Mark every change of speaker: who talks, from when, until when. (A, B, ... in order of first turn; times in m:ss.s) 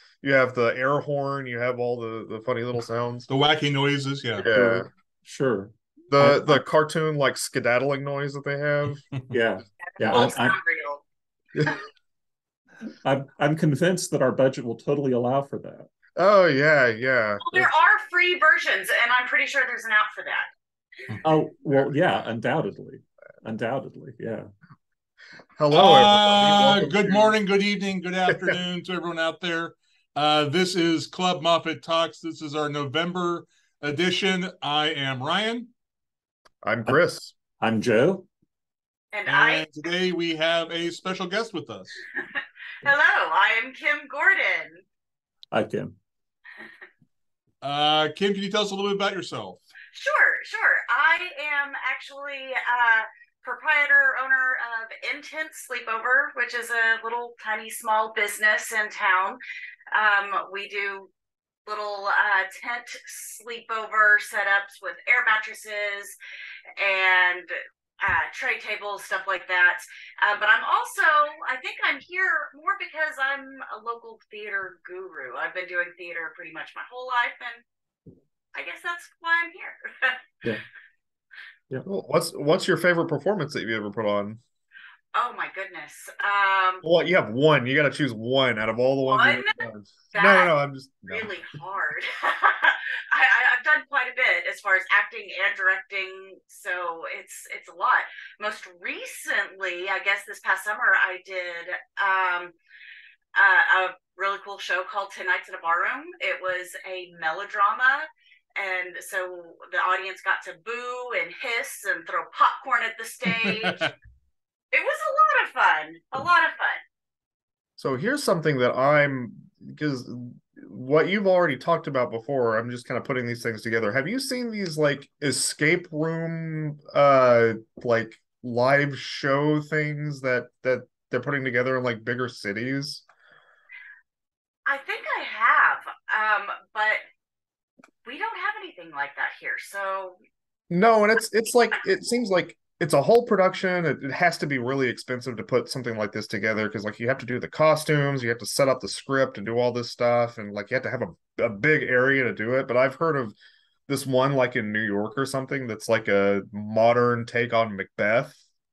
0:00.2-0:03.3 A
0:03.3-0:04.5 B
0:04.4-0:04.9 A
0:04.4-0:06.6 C
0:06.1-0:09.0 A
0:09.3-0:10.6 C
0:10.0-0:11.0 D
0:12.9-0:15.9 C
0:16.2-0:17.7 A
0:17.4-0:20.5 D
0:21.2-0:24.5 C
0:25.6-0:27.3 A
0:25.7-0:35.7 B
0:36.6-0:37.3 A
0:37.6-0:38.3 C
0:39.1-0:39.6 D
0:39.3-0:42.0 B
0:42.4-0:44.8 D
0:45.5-0:45.9 C
0:47.6-0:49.6 B
0:49.9-0:59.4 D
0:59.9-1:01.1 D
1:01.6-1:06.2 D
1:06.8-1:17.6 D
1:18.5-1:20.2 D
1:21.8-1:24.4 A
1:25.1-1:26.8 D
1:26.8-1:31.3 A
1:29.1-1:29.6 D
1:30.1-1:30.5 D
1:31.0-1:42.5 D
1:43.3-1:53.9 D
1:53.4-1:53.9 B
1:54.7-1:56.8 D
1:57.8-2:13.0 A
2:14.6-2:17.0 D
2:18.0-2:20.2 D
2:20.7-2:33.3 A
2:33.9-2:38.4 A